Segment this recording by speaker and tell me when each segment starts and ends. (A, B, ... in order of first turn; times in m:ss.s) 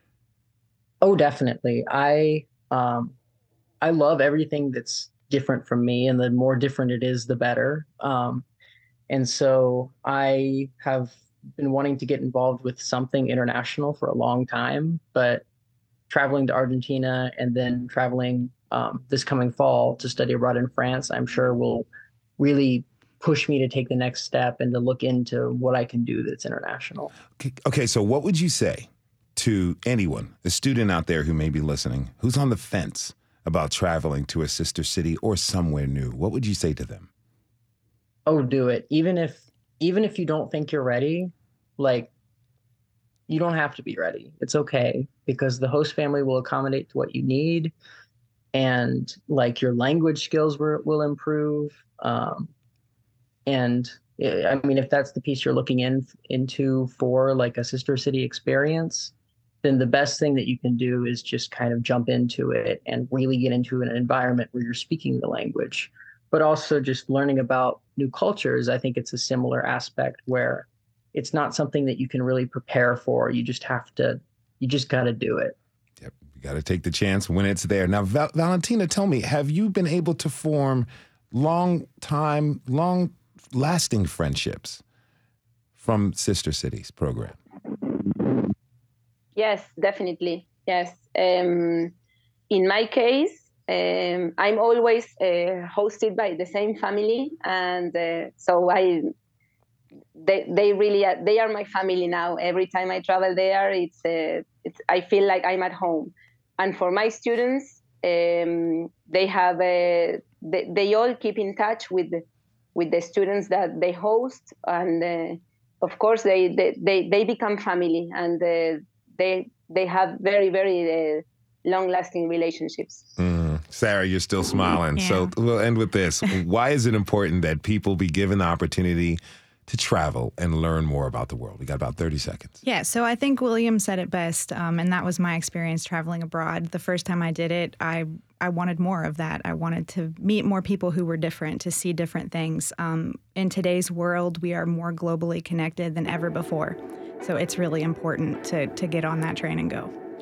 0:01.0-0:03.1 A
0:03.8-0:08.4 A
0:09.1-0:15.4 A
0:16.1-0:21.9 A
0:22.4-0:27.1 A
0:27.4-0:37.1 B
0:38.3-0:42.1 A
0:43.3-0:47.7 A
0:48.5-0:52.5 A
0:53.5-0:59.1 A
0:59.6-1:15.5 A
1:16.0-1:24.8 B
1:25.8-1:27.4 B
1:29.3-1:31.9 C
1:32.5-1:39.1 C
1:40.2-1:52.2 C
1:52.7-2:03.0 C
2:03.2-2:12.6 B
2:05.0-2:05.3 D
2:12.6-2:29.9 D